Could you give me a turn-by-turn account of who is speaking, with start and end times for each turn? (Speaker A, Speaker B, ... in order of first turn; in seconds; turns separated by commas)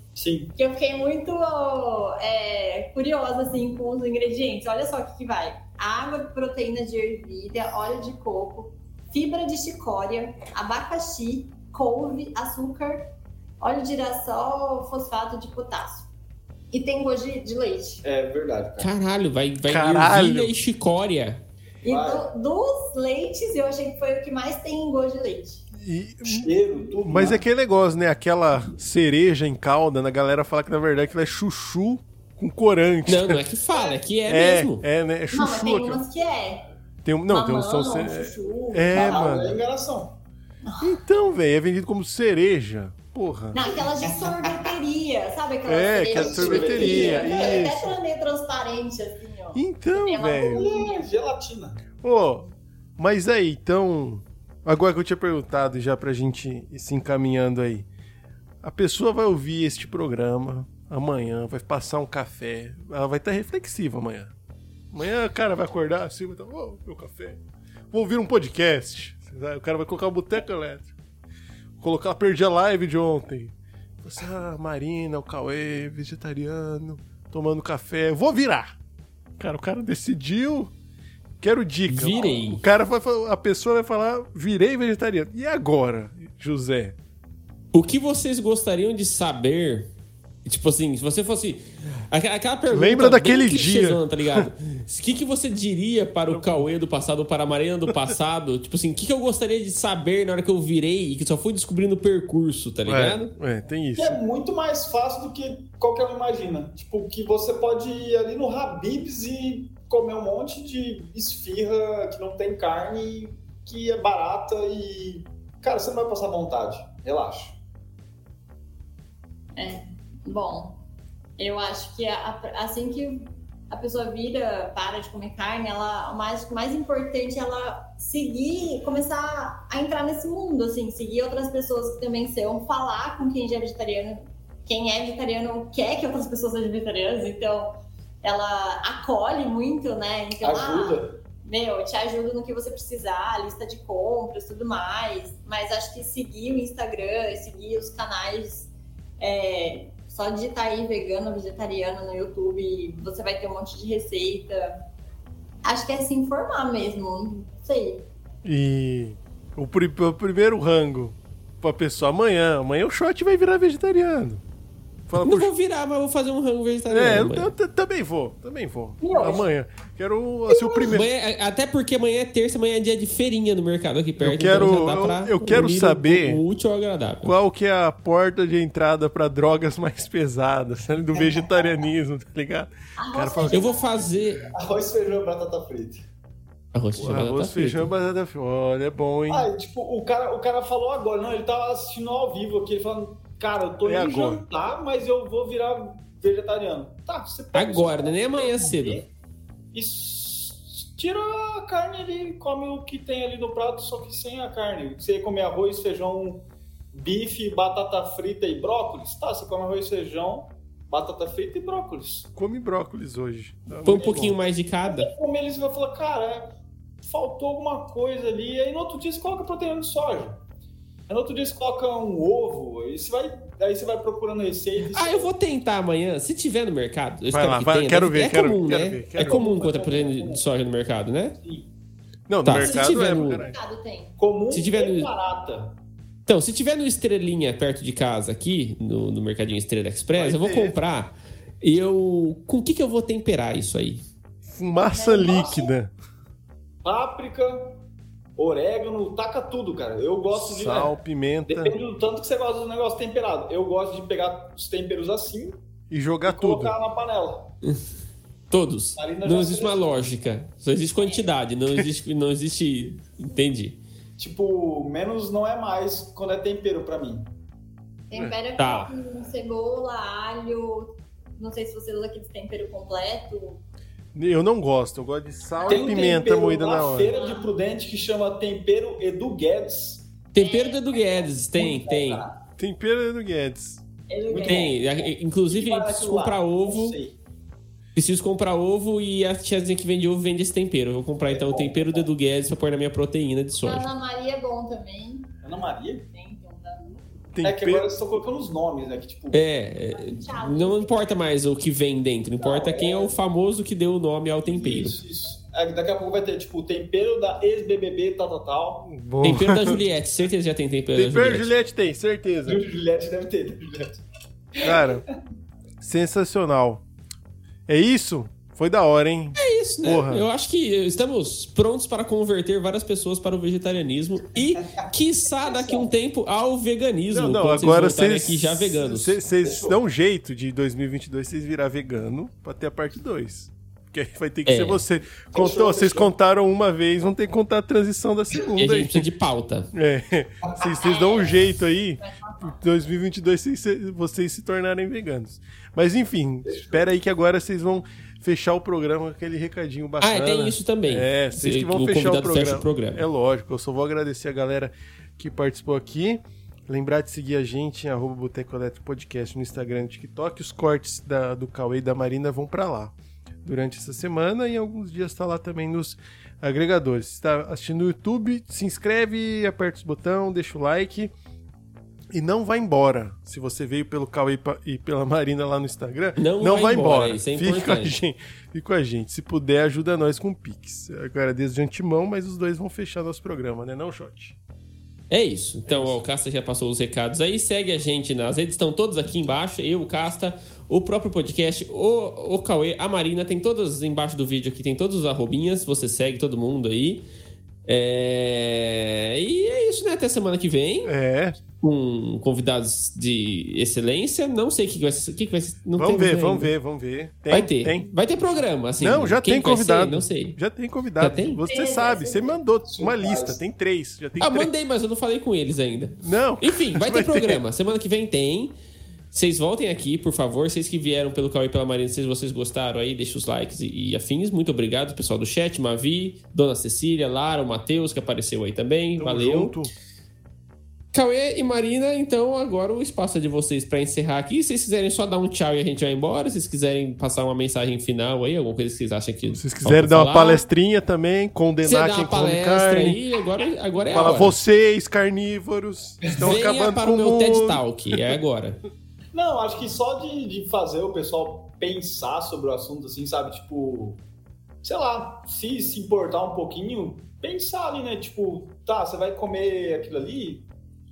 Speaker A: 0.2-0.5, Speaker B: 0.6-13.1, Speaker B: 13.6-16.1, Speaker B: 16.7-18.0, Speaker A: 18.0-18.9, Speaker C: 18.8-21.4, Speaker D: 19.7-20.5, Speaker B: 21.8-25.6, Speaker A: 21.9-22.3, Speaker D: 25.8-26.5, Speaker A: 26.2-27.4, Speaker D: 27.0-33.4, Speaker C: 33.1-34.9, Speaker D: 34.3-36.0, Speaker B: 35.3-36.6, Speaker D: 37.0-39.6, Speaker B: 37.3-39.5, Speaker A: 38.9-40.2, Speaker B: 40.6-41.0, Speaker D: 40.8-43.7, Speaker B: 43.5-51.0, Speaker A: 44.0-44.8, Speaker D: 45.7-48.0, Speaker A: 46.1-47.7, Speaker D: 49.5-50.7, Speaker A: 50.4-51.8, Speaker D: 52.0-57.9, Speaker D: 58.6-64.3, Speaker D: 64.9-67.4, Speaker D: 67.9-70.9, Speaker D: 71.8-78.8, Speaker D: 79.4-80.7, Speaker D: 81.4-87.0, Speaker C: 81.9-82.6, Speaker C: 87.7-89.9, Speaker C: 90.5-103.3, Speaker D: 92.7-94.5, Speaker D: 96.3-96.7, Speaker D: 102.9-104.2, Speaker A: 104.0-117.6, Speaker B: 119.6-120.8, Speaker B: 121.4-154.7, Speaker A: 140.4-141.2, Speaker B: 155.6-158.1, Speaker D: 158.4-164.4, Speaker D: 165.1-165.5, Speaker C: 165.2-167.5, Speaker D: 166.9-171.1, Speaker B: 169.0-169.5, Speaker B: 170.5-170.9, Speaker C: 170.9-177.3, Speaker D: 174.2-176.4, Speaker D: 177.2-183.7, Speaker A: 181.2-181.5, Speaker B: 183.0-184.1, Speaker C: 183.5-184.5, Speaker A: 184.5-186.0, Speaker C: 186.7-187.9, Speaker D: 187.0-189.5, Speaker A: 189.3-199.1, Speaker D: 193.8-194.4, Speaker C: 197.5-199.0, Speaker A: 199.7-212.3, Speaker D: 212.4-214.4, Speaker C: 213.8-215.1, Speaker A: 213.9-220.4, Speaker A: 221.1-225.3, Speaker C: 224.8-231.4, Speaker D: 227.3-229.4, Speaker A: 229.2-230.4, Speaker A: 231.4-231.7, Speaker D: 232.3-233.6, Speaker C: 232.4-233.5, Speaker B: 232.5-234.2, Speaker A: 234.2-235.8, Speaker C: 234.5-235.1, Speaker C: 236.3-244.0, Speaker D: 240.2-240.8, Speaker D: 244.4-245.9, Speaker B: 244.9-245.7, Speaker A: 246.8-247.8, Speaker A: 248.4-251.0, Speaker D: 250.3-251.8, Speaker A: 251.5-255.6, Speaker D: 255.9-256.8, Speaker A: 256.3-257.5, Speaker C: 258.5-263.8, Speaker A: 258.9-260.1, Speaker B: 261.0-261.3, Speaker A: 264.2-267.3, Speaker B: 268.1-273.6, Speaker C: 268.2-268.9, Speaker D: 274.1-277.1, Speaker B: 275.6-276.1, Speaker A: 275.7-280.1, Speaker B: 277.1-277.5, Speaker C: 280.3-282.3, Speaker B: 280.4-281.4, Speaker A: 281.6-282.4, Speaker D: 282.6-283.8, Speaker B: 284.1-284.8, Speaker C: 284.3-287.0, Speaker A: 284.4-287.2, Speaker C: 287.9-293.9, Speaker A: 291.3-292.1, Speaker B: 293.6-295.3, Speaker A: 295.4-296.1, Speaker B: 296.1-297.0, Speaker D: 297.3-297.9, Speaker A: 297.4-299.4, Speaker C: 299.3-305.0, Speaker B: 299.9-301.2, Speaker A: 302.4-303.2, Speaker A: 304.4-308.9, Speaker D: 308.9-309.8, Speaker C: 309.2-311.5, Speaker D: 310.9-312.6, Speaker A: 312.4-314.0, Speaker A: 314.6-315.0, Speaker D: 314.6-315.0, Speaker D: 315.8-316.8, Speaker D: 317.7-320.3, Speaker C: 319.4-329.2, Speaker B: 325.5-325.8, Speaker D: 327.1-339.1, Speaker A: 329.4-329.8, Speaker C: 334.4-334.8, Speaker A: 335.3-336.1, Speaker C: 338.6-339.7, Speaker D: 339.7-371.1, Speaker B: 340.8-341.3, Speaker B: 342.0-342.6, Speaker A: 346.4-346.9, Speaker C: 350.0-353.0, Speaker D: 372.1-384.4, Speaker C: 376.2-377.9, Speaker C: 385.1-397.1, Speaker A: 385.7-385.9, Speaker C: 397.7-400.9, Speaker D: 400.8-401.4, Speaker C: 401.6-406.5, Speaker D: 405.8-407.9, Speaker C: 407.3-410.4, Speaker D: 408.8-414.5, Speaker C: 411.0-411.4, Speaker B: 411.4-412.4, Speaker A: 412.7-413.4, Speaker C: 414.2-418.5, Speaker D: 416.0-417.4, Speaker C: 419.1-429.6, Speaker D: 429.0-429.7, Speaker C: 430.9-440.4, Speaker D: 439.4-443.0, Speaker C: 441.6-444.4, Speaker D: 443.9-448.1, Speaker C: 446.1-448.6, Speaker A: 449.1-454.0, Speaker A: 454.6-460.4